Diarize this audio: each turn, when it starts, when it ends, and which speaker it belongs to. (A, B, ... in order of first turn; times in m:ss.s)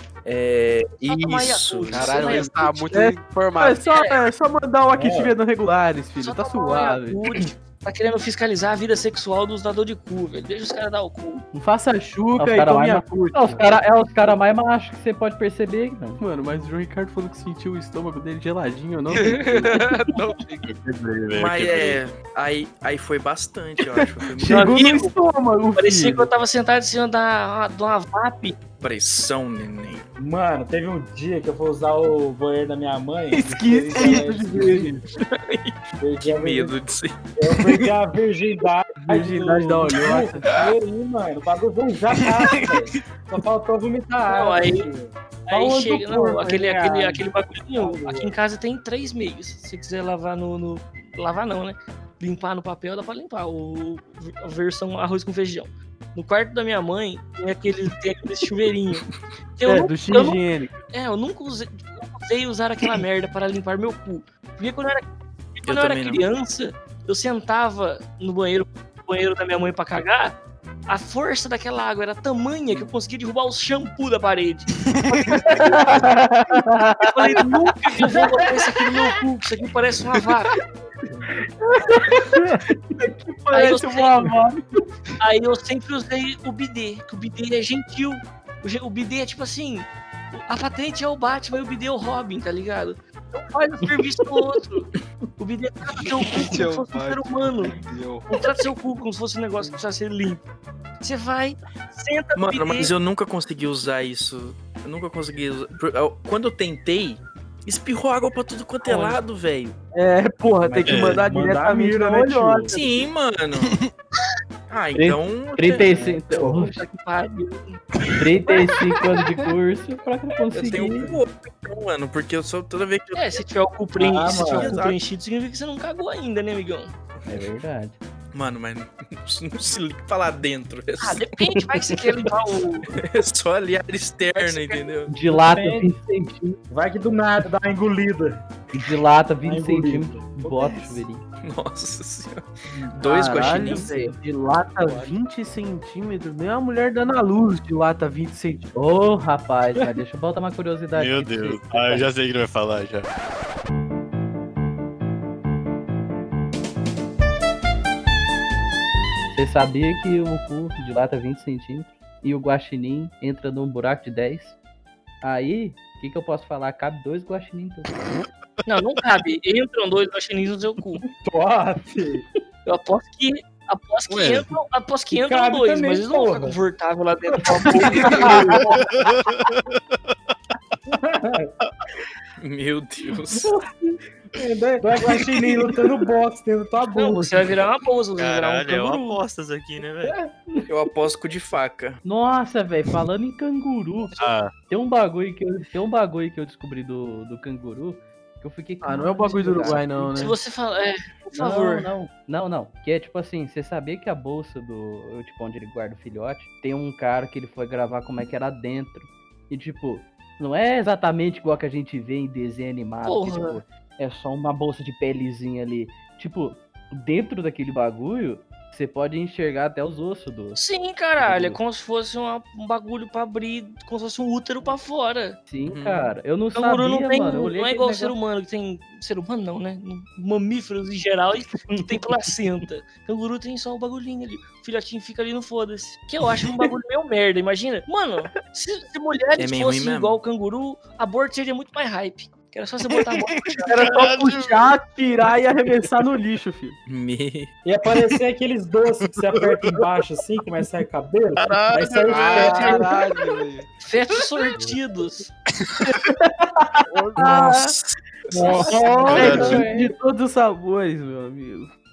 0:00.2-0:02.3 A
0:01.0-0:02.8 B
0:01.9-0:03.8 C
0:02.9-0:07.2 D
0:03.8-0:04.2 B
0:04.9-0:05.4 E
0:06.2-0:11.4 B
0:11.6-0:13.8 D
0:12.4-0:16.2 F
0:16.2-0:19.9 D
0:19.1-0:20.7 C
0:20.7-0:22.0 G
0:21.3-0:24.8 A
0:23.9-0:26.3 D
0:24.5-0:25.2 B
0:25.8-0:28.6 B
0:28.8-0:30.1 A
0:30.2-0:34.9 E
0:33.3-0:35.0 D
0:35.4-0:37.2 A
0:36.0-0:36.7 E
0:37.4-0:47.2 E
0:39.1-0:40.5 D
0:42.4-0:43.0 G
0:44.3-0:44.9 B
0:45.5-1:00.4 B
0:47.8-0:48.3 E
0:59.6-1:00.8 D
1:00.9-1:05.0 B
1:05.6-1:10.4 B
1:05.7-1:06.2 A
1:10.9-1:15.9 B
1:15.5-1:16.6 F
1:17.0-1:20.5 B
1:21.9-1:24.6 D
1:22.0-1:22.6 F
1:23.5-1:24.2 B
1:25.2-1:37.8 B
1:36.2-1:38.3 C
1:38.3-1:40.5 B
1:41.0-1:42.9 B
1:42.4-1:49.8 A
1:48.8-1:49.2 B
1:49.9-1:52.8 D
1:50.6-1:53.1 E
1:50.9-1:51.2 G
1:52.7-1:53.8 A
1:54.7-1:56.0 A
1:55.0-1:56.8 F
1:55.7-1:57.8 B
1:58.2-2:01.1 F
2:00.5-2:03.4 A
2:03.2-2:06.9 B
2:04.0-2:04.8 E
2:04.2-2:05.0 A
2:07.3-2:08.0 F
2:08.3-2:11.3 A
2:11.0-2:12.9 B
2:11.6-2:12.0 F
2:12.9-2:15.1 A
2:14.4-2:14.9 B
2:15.1-2:16.6 F
2:15.3-2:15.9 E
2:16.7-2:18.8 E
2:18.7-2:21.2 F
2:19.4-2:21.0 E
2:21.4-2:23.9 A
2:23.0-2:28.7 D
2:23.1-2:24.1 F
2:24.9-2:25.1 E
2:28.7-2:32.1 F
2:31.0-2:33.1 G
2:39.3-2:44.6 F
2:45.2-2:47.9 F
2:48.7-2:51.0 B
2:51.2-2:52.2 E
2:52.7-2:58.8 B
2:54.1-2:54.4 G
2:55.1-2:56.6 E
2:57.9-2:58.6 E
2:58.8-3:00.1 G
3:00.9-3:01.5 E
3:02.4-3:03.5 A
3:04.4-3:07.6 E
3:06.9-3:09.2 B
3:08.2-3:10.2 H
3:10.7-3:12.0 A
3:12.0-3:14.1 F
3:14.2-3:14.5 G
3:14.7-3:20.3 F
3:18.8-3:20.4 D
3:20.2-3:21.9 B
3:21.3-3:40.6 F
3:33.0-3:33.6 B
3:40.6-3:45.4 B
3:41.2-3:41.6 F
3:45.5-3:48.2 F
3:45.7-3:46.1 A
3:46.6-4:04.1 B
3:59.4-4:00.2 A
4:02.9-4:04.8 G
4:03.7-4:06.8 D
4:06.9-4:07.5 A
4:07.6-4:13.0 E
4:09.1-4:09.7 G
4:11.4-4:12.3 G
4:12.1-4:13.7 C
4:12.1-4:12.9 B
4:13.8-4:15.3 B
4:17.0-4:17.7 D
4:17.2-4:18.0 A
4:18.3-4:19.7 E
4:18.4-4:21.7 D
4:19.1-4:19.6 G
4:19.2-4:20.0 F